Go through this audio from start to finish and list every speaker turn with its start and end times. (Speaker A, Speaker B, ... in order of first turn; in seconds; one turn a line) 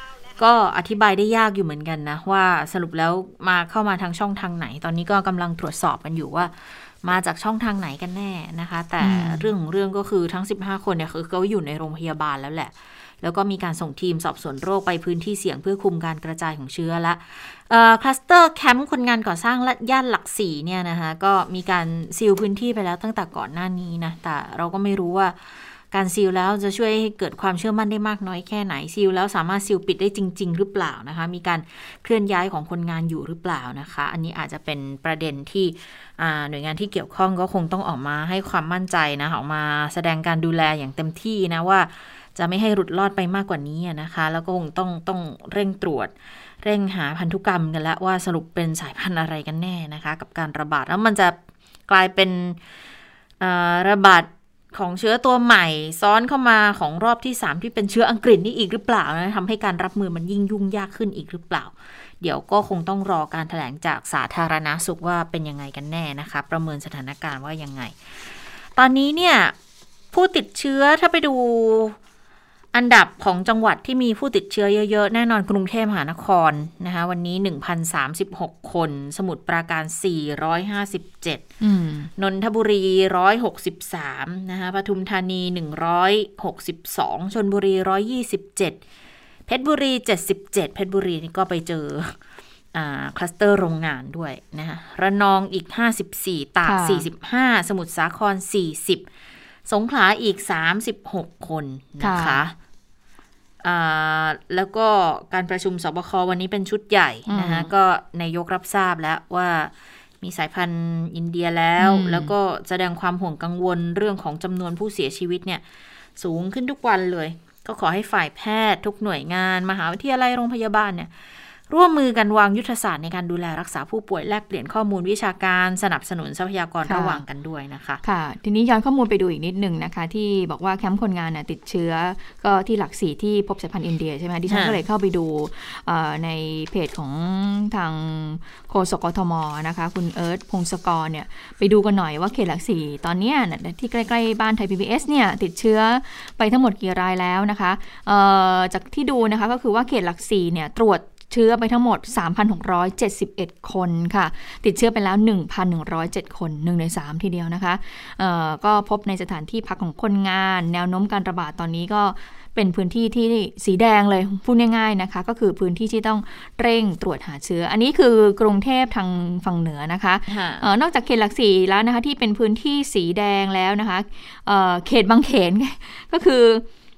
Speaker A: 0.4-51.4
Speaker B: 9.0-9.5
Speaker A: 51.9-52.6
Speaker A: 53.4-68.2
Speaker A: 68.8-69.5
Speaker A: 70.1-72.0
Speaker A: 72.7-81.5
Speaker B: 81.6-82.1
Speaker A: 82.2-88.8
Speaker A: 89.5-92.2
Speaker A: 92.7-99.0
Speaker B: 96.7-97.1
Speaker A: 99.7-102.5
Speaker B: 102.0-102.4
Speaker A: 103.6-115.6
Speaker B: 107.3-107.7
Speaker B: 111.8-112.3
Speaker A: 116.2-128.0
Speaker B: 126.8-127.2
Speaker B: 128.0-176.7
Speaker A: 134.5-134.8
Speaker A: 170.3-170.7